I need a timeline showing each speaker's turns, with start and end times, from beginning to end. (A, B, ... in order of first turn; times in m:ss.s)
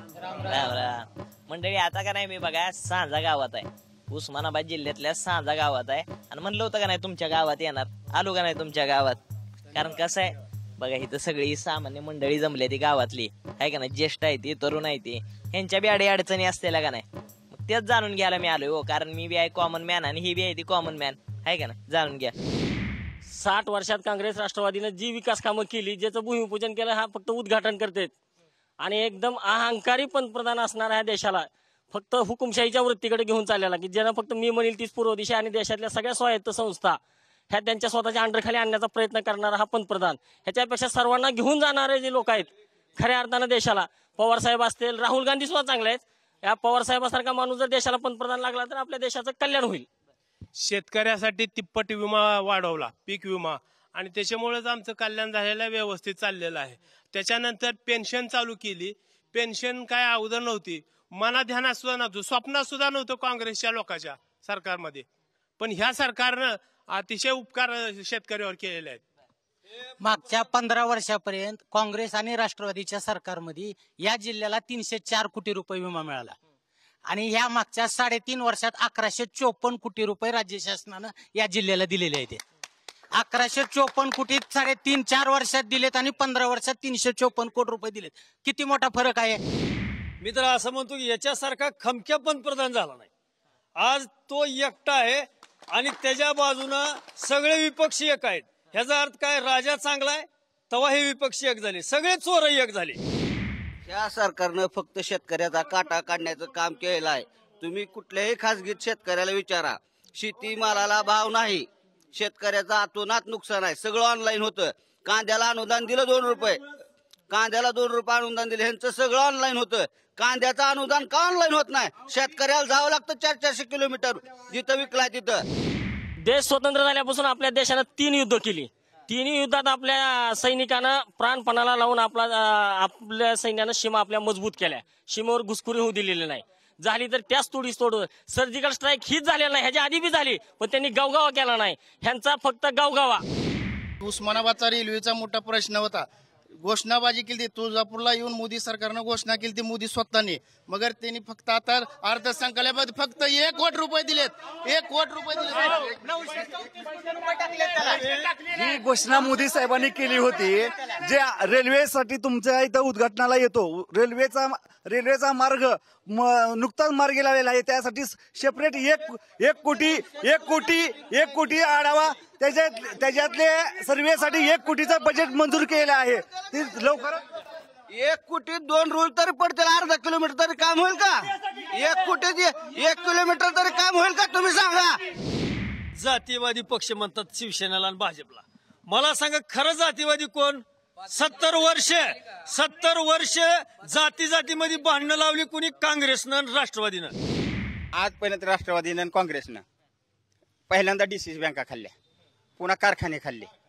0:00.4-0:09.2 A
0:09.7-0:22.3 A
0:23.3-0:28.1 B
0:28.8-0:37.0 B
0:37.5-0:49.9 B
0:50.6-1:05.0 C
1:05.6-1:09.0 C
1:10.0-1:16.4 D
1:17.1-1:22.4 D
1:23.1-1:29.4 D
1:30.2-1:33.1 E
1:33.8-1:43.0 E
1:43.8-1:56.6 F
1:57.3-2:05.4 F
2:06.2-2:23.2 B
2:24.0-2:26.0 G
2:26.6-2:36.0 G
2:38.5-2:57.2 H
2:57.9-3:05.0 F
3:06.0-3:17.1 E
3:17.9-3:19.6 I
3:20.7-3:21.9 I
3:22.6-3:23.5 I